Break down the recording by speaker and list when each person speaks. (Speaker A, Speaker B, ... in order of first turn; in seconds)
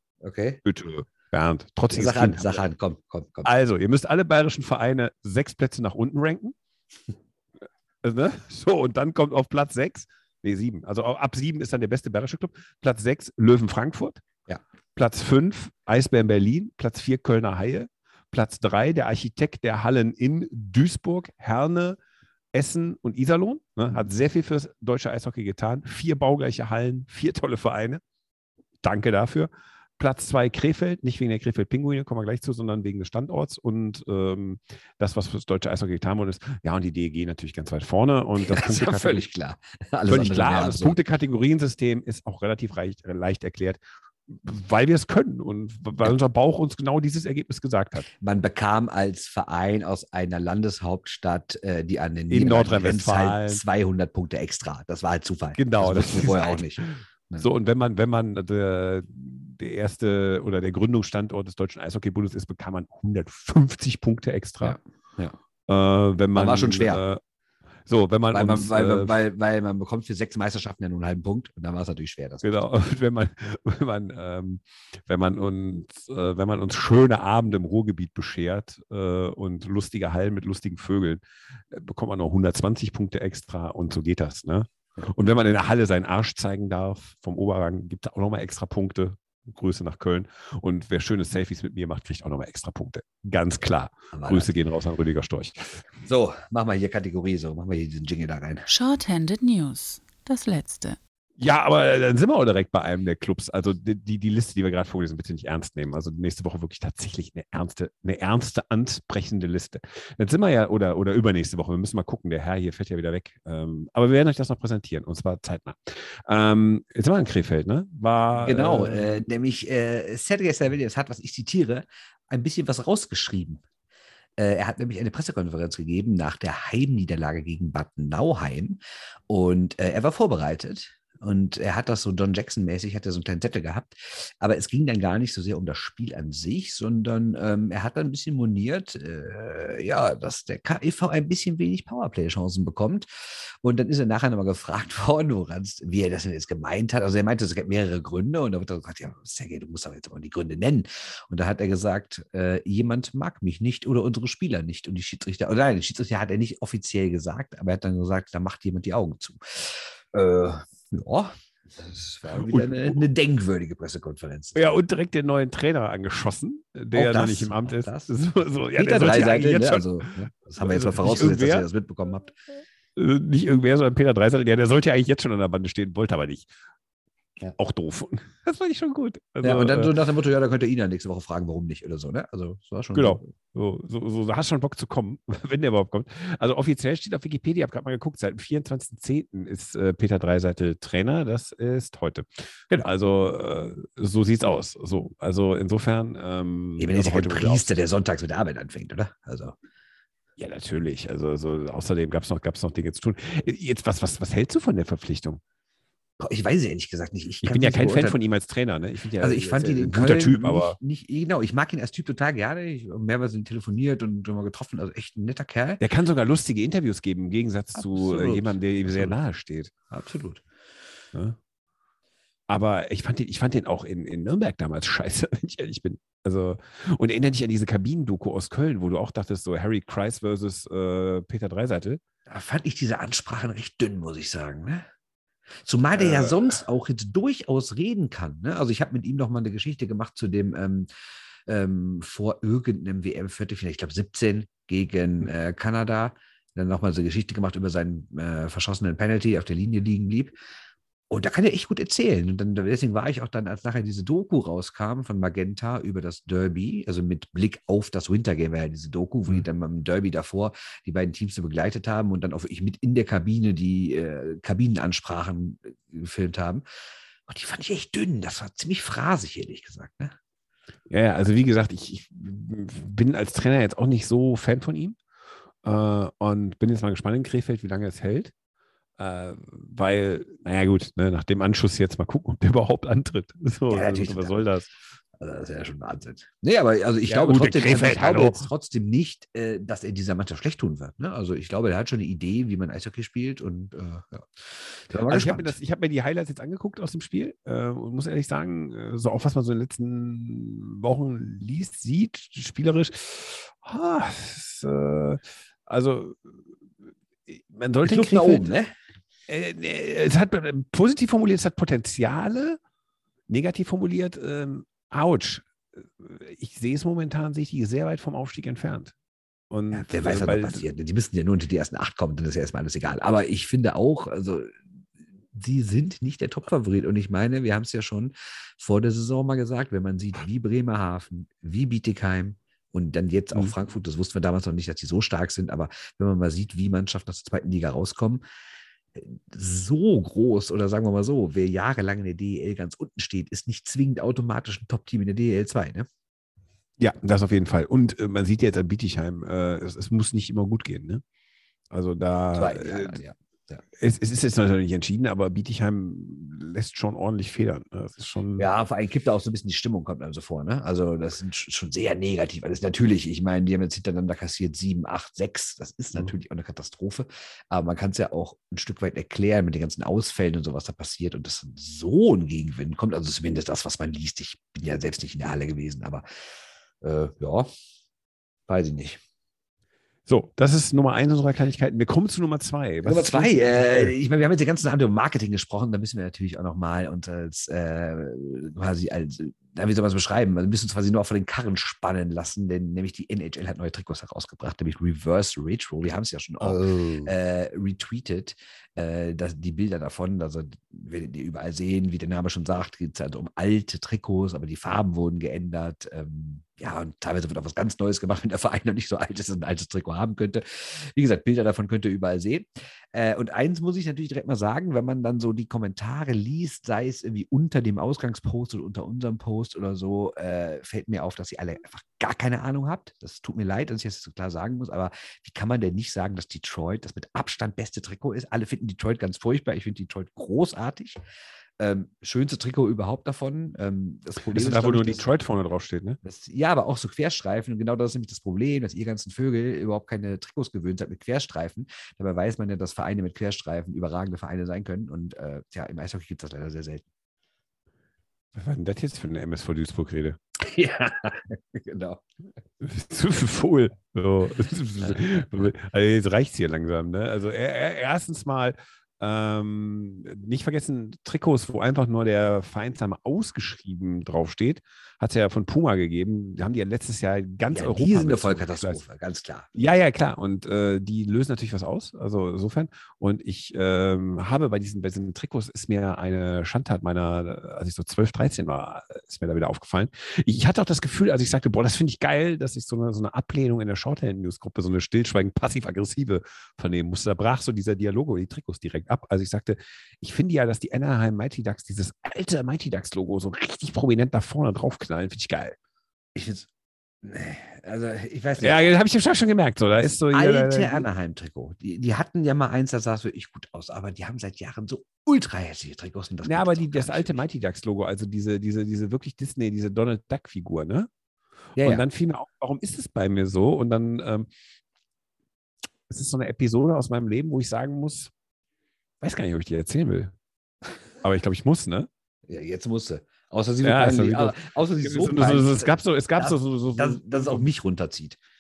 Speaker A: 0.2-0.6, 1.9-3.5, 38.4-41.0, 48.1-57.5, 64.6-65.4, 66.3-67.0, 68.3-72.6, 94.1-94.5, 96.0-98.7, 118.4-123.6, 124.4-164.8, 166.9-168.1, 168.8-172.4, 179.4-183.2, 196.8-199.6, 206.2-208.2, 209.2-215.8, 217.8-219.2, 219.9-220.4, 232.3-234.8, 235.6-240.9, 241.5-250.4, 251.1-266.6, 267.3-270.1, 283.7-284.4, 285.2-295.6, 307.8-308.7, 319.7-324.6, 325.3-338.2, 338.9-345.9, 352.4-353.6, 358.4-376.0, 376.8-377.5, 378.5-379.0, 382.8-431.0, 431.6-435.1, 436.0-446.8, 450.4-452.0, 467.5-469.5, 496.1-496.5, 497.0-498.6, 500.1-507.2, 511.6-511.9, 522.3-528.2
Speaker B: 0.6-2.6, 3.5-6.5, 8.0-14.2, 14.9-22.0, 22.5-28.0, 28.8-39.2, 40.1-48.1, 52.3-53.6, 55.6-64.8, 65.7-67.2, 67.9-69.2, 72.4-95.8, 101.4-119.2, 162.3-163.0, 164.6-171.7, 172.9-176.5, 177.6-180.0, 182.9-197.7, 200.4-205.4, 207.4-210.8, 215.8-219.7, 222.5-232.0, 236.0-236.4, 270.9-275.0, 275.6-278.3, 279.0-284.7, 287.1-288.5, 295.1-306.2, 307.3-308.5, 309.3-312.6, 313.3-315.5, 316.0-318.9, 319.5-320.6, 346.8-351.0, 351.7-353.0, 353.8-358.5, 380.1-383.9, 396.4-397.1, 434.2-436.0, 448.4-450.2, 452.6-468.8, 469.6-495.6, 498.4-500.9, 506.2-510.9, 511.6-514.3, 515.9-518.1, 519.0-520.1, 521.0-521.9, 523.6-527.5
Speaker C: 98.7-101.0